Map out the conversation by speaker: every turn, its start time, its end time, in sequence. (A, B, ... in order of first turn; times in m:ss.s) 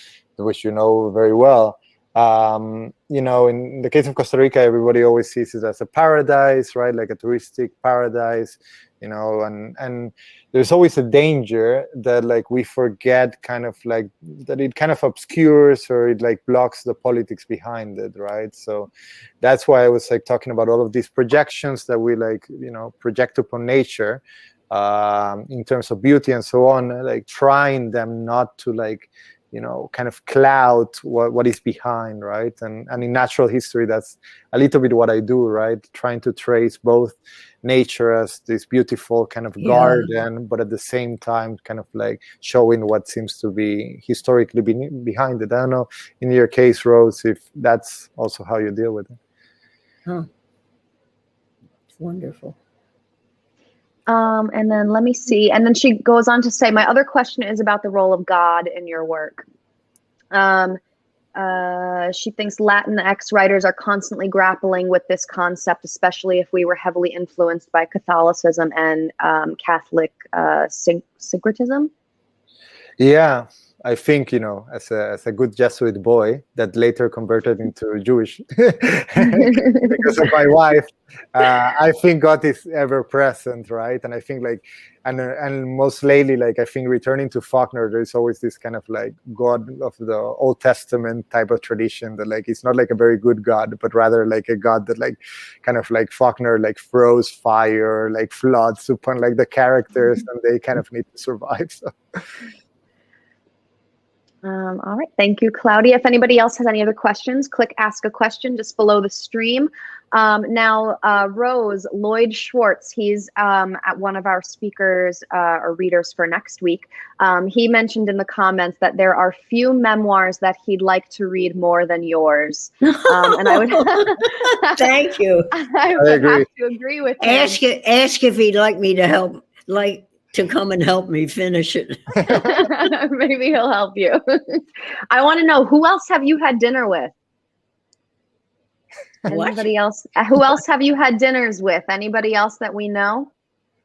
0:00.4-0:18.9 A
0:19.4-0:49.2 A
0:39.6-0:40.1 B
0:52.0-0:52.6 B
0:54.1-0:59.4 C
1:00.3-1:00.8 C
1:01.4-1:11.9 C
1:13.0-1:42.2 A
1:19.3-1:20.1 C
1:44.4-2:04.6 C
2:02.8-2:05.5 B
2:05.5-2:07.6 C
2:06.0-2:06.5 A
2:07.2-2:12.4 B
2:12.3-2:17.1 C
2:19.3-2:19.7 B
2:19.3-2:23.3 C